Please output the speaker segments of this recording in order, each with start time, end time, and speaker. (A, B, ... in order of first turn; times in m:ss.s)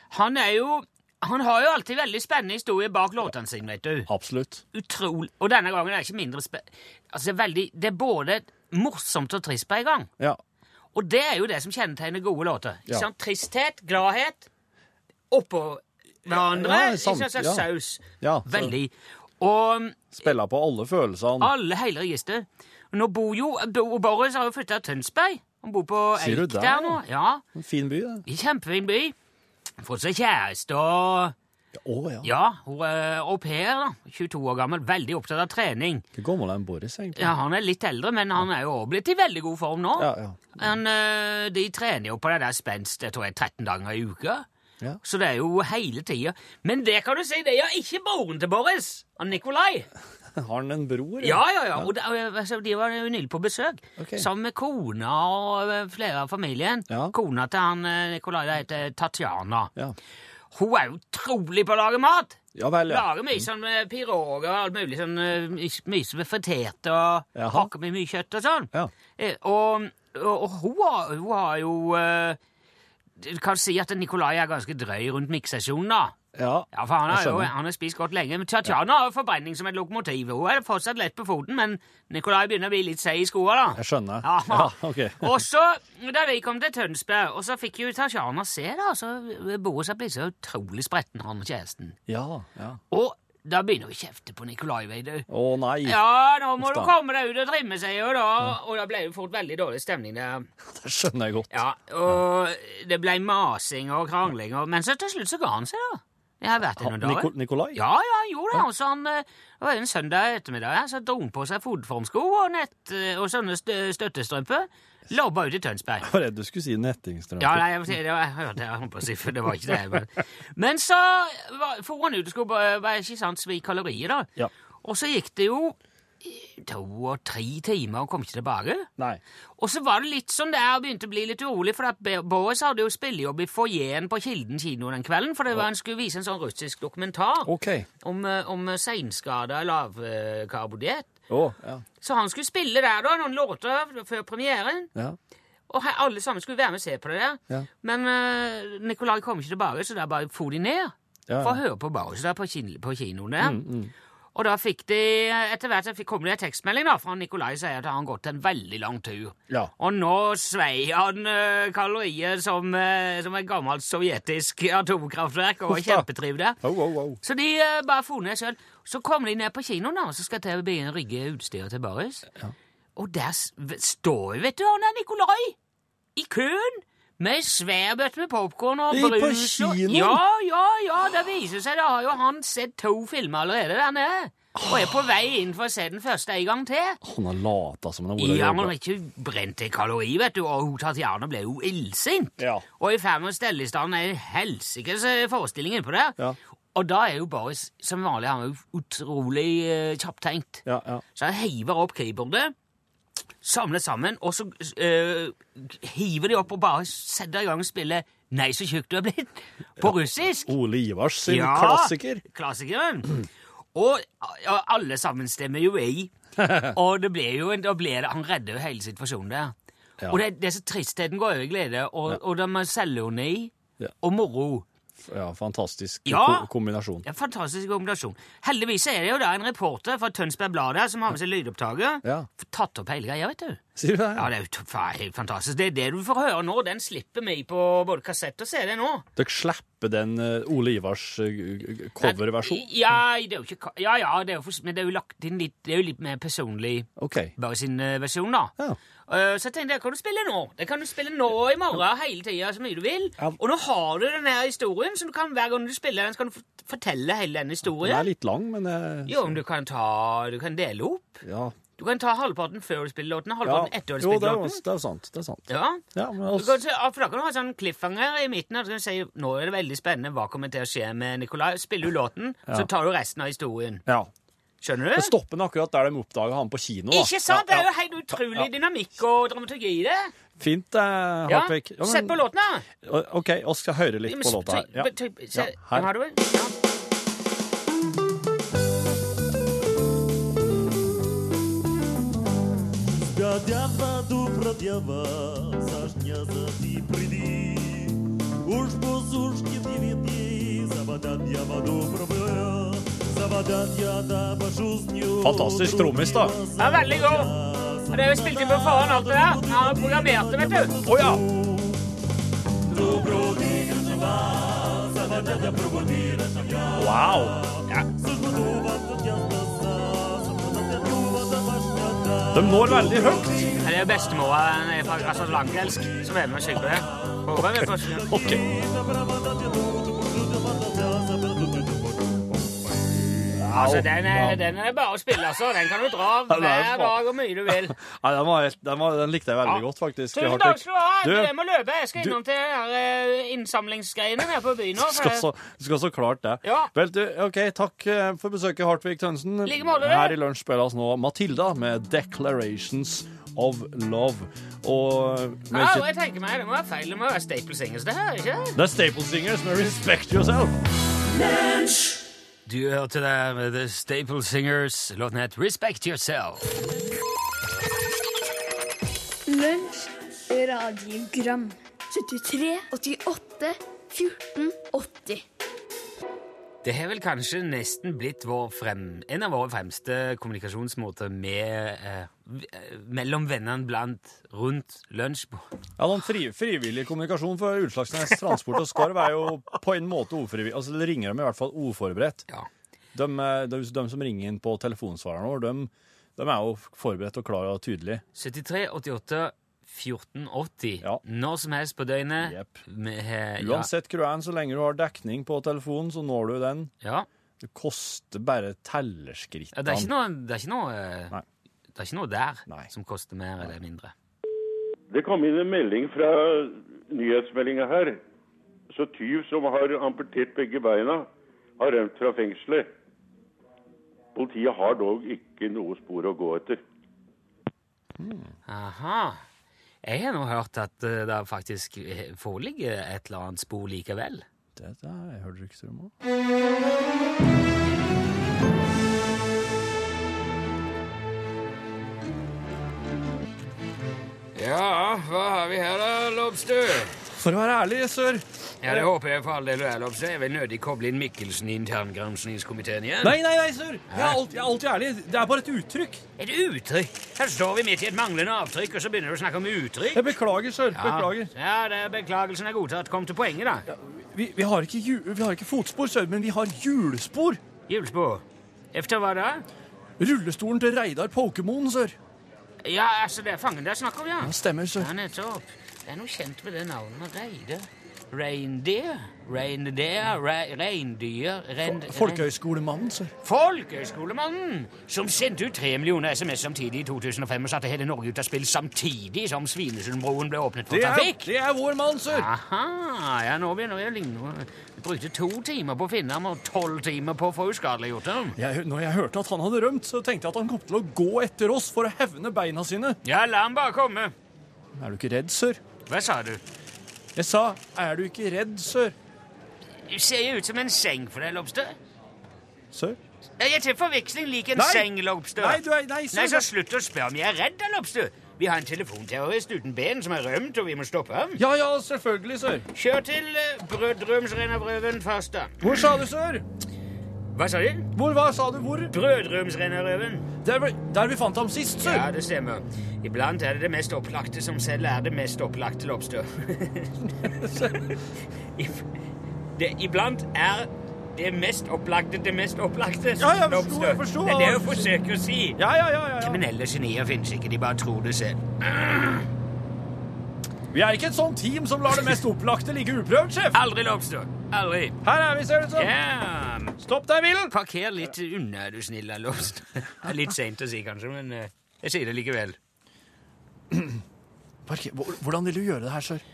0:00.1-0:04.1 A
0:04.1-0:04.6 B
0:04.7-0:10.1 A
0:10.9-0:14.5 A
0:15.3-0:20.1 A
0:16.3-0:18.8 B
0:20.1-0:21.5 B
0:21.4-0:27.4 A
0:26.2-0:27.0 B
0:27.6-0:28.2 B
0:28.3-0:29.2 A
0:29.8-0:31.4 A
0:31.8-0:32.3 B
0:32.2-0:36.0 A
0:36.2-0:37.3 B
0:37.2-0:44.4 A
0:40.0-0:40.6 B
0:45.0-0:49.9 A
0:50.4-0:51.9 B
0:51.2-0:59.7 A
0:54.0-0:54.3 B
0:56.9-0:57.1 B
1:00.5-1:12.4 A
1:02.6-1:03.5 B
1:07.4-1:07.7 B
1:13.2-1:16.2 A
1:16.3-1:17.5 B
1:16.7-1:32.0 A
1:23.8-1:25.4 B
1:32.1-1:32.8 B
1:32.9-1:35.3 A
1:35.3-1:36.0 B
1:35.8-1:40.5 A
1:36.6-1:36.9 B
1:40.7-1:42.2 B
1:41.5-1:56.1 A
1:46.6-1:47.8 B
1:56.0-1:57.8 B
1:57.4-2:04.3 A
2:04.8-2:08.9 A
2:09.6-2:21.2 A
2:17.4-2:17.9 B
2:21.3-2:21.8 B
2:22.0-2:24.9 A
2:25.7-2:33.6 A
2:31.3-2:31.6 B
2:33.4-2:33.9 B
2:34.4-2:46.6 A
2:45.7-2:46.1 B
2:46.6-2:47.2 B
2:47.2-2:52.3 A
2:53.0-2:55.6 A
2:56.2-3:07.0 A
2:58.9-3:00.2 B
3:04.6-3:04.9 B
3:07.0-3:08.7 B
3:08.2-3:16.2 A
3:12.4-3:12.6 B
3:16.8-3:20.6 A
3:20.6-3:21.0 B
3:21.2-3:22.5 A
3:23.4-3:30.5 A
3:29.8-3:32.2 B
3:31.3-3:39.5 A
3:36.4-3:36.8 B
3:40.1-3:44.7 A
3:45.0-3:47.0 B
3:46.1-3:46.5 A
3:47.0-3:53.6 A
3:53.8-3:54.3 B
3:54.2-3:59.1 A
3:59.2-4:02.8 B
4:02.0-4:08.6 A
4:07.0-4:07.4 B
4:09.1-4:18.1 A
4:17.6-4:19.4 B
4:19.1-4:21.2 A
4:21.2-4:21.6 B
4:21.8-4:24.6 A
4:23.4-4:26.6 B
4:25.5-4:33.8 A
4:34.6-4:35.1 A
4:35.0-4:38.5 B
4:36.9-4:40.1 A
4:40.4-4:42.2 B
4:41.3-4:42.7 A
4:42.8-4:45.9 B
4:44.1-4:46.5 A
4:52.9-5:11.8 C
5:05.2-5:06.4 B
5:06.6-5:07.3 A
5:07.9-5:10.7 A
5:10.8-5:11.2 B
5:12.7-5:23.6 C
5:16.8-5:17.4 B
5:22.3-5:23.6 B
5:23.6-5:28.1 A
5:24.8-5:26.8 C
5:27.4-5:28.4 B
5:28.0-5:32.0 C
5:33.3-5:34.4 B
5:33.4-5:37.8 A
5:36.3-5:41.3 B
5:39.4-5:45.3 A
5:44.8-5:55.9 B
5:46.4-5:46.7 A
5:49.4-5:50.2 A
5:55.5-5:58.6 A
5:58.6-6:00.6 B
6:02.5-6:06.5 A
6:09.3-6:15.2 D
6:16.6-6:25.4 A
6:25.8-6:32.2 B
6:32.9-6:38.0 B
6:38.2-6:43.7 A
6:42.2-6:42.6 B
6:43.4-6:46.7 B
6:46.8-6:47.1 A
6:47.4-6:49.9 B
6:49.5-6:51.2 A
6:51.8-6:53.9 A
6:54.9-6:58.0 E
6:58.7-7:01.1 E
7:01.6-7:02.7 E
7:04.2-7:06.6 E
7:08.0-7:08.3 B
7:08.5-7:09.2 A
7:09.8-7:14.2 A
7:14.6-7:15.9 B
7:24.4-7:27.0 A
7:27.1-7:28.9 B
7:28.6-7:33.2 A
7:33.0-7:36.0 B
7:33.9-7:34.2 A
7:36.2-7:40.1 A
7:39.9-7:41.3 B
7:40.7-7:43.7 A
7:43.7-7:47.4 B
7:47.7-7:49.5 A
7:50.0-7:52.0 B
7:52.6-8:02.3 A
7:54.2-7:54.9 B
8:01.6-8:03.1 B
8:03.2-8:11.3 A
8:10.7-8:12.3 B
8:12.1-8:18.4 A
8:18.4-8:23.0 B
8:23.0-8:24.1 A
8:24.7-8:25.6 B
8:25.9-8:26.4 A
8:27.2-8:29.0 B
8:29.9-8:31.8 A
8:32.7-8:33.0 B
8:33.4-8:41.4 A
8:34.6-8:36.5 B
8:41.4-8:42.7 B
8:42.7-8:45.6 A
8:45.6-8:46.4 B
8:47.3-8:47.9 A
8:48.0-8:48.9 B
8:48.9-8:50.3 A
8:50.4-8:52.1 B
8:51.8-8:58.0 A
8:57.3-8:57.9 B
8:58.6-8:58.8 A
8:59.6-9:05.6 A
9:03.2-9:04.9 B
9:05.6-9:06.4 B
9:06.2-9:09.3 A
9:10.7-9:13.6 B
9:13.5-9:15.0 A
9:15.0-9:15.9 B
9:15.8-9:16.8 A
9:16.8-9:17.5 B
9:17.5-9:22.6 A
9:23.7-9:24.0 B
9:24.7-9:26.2 B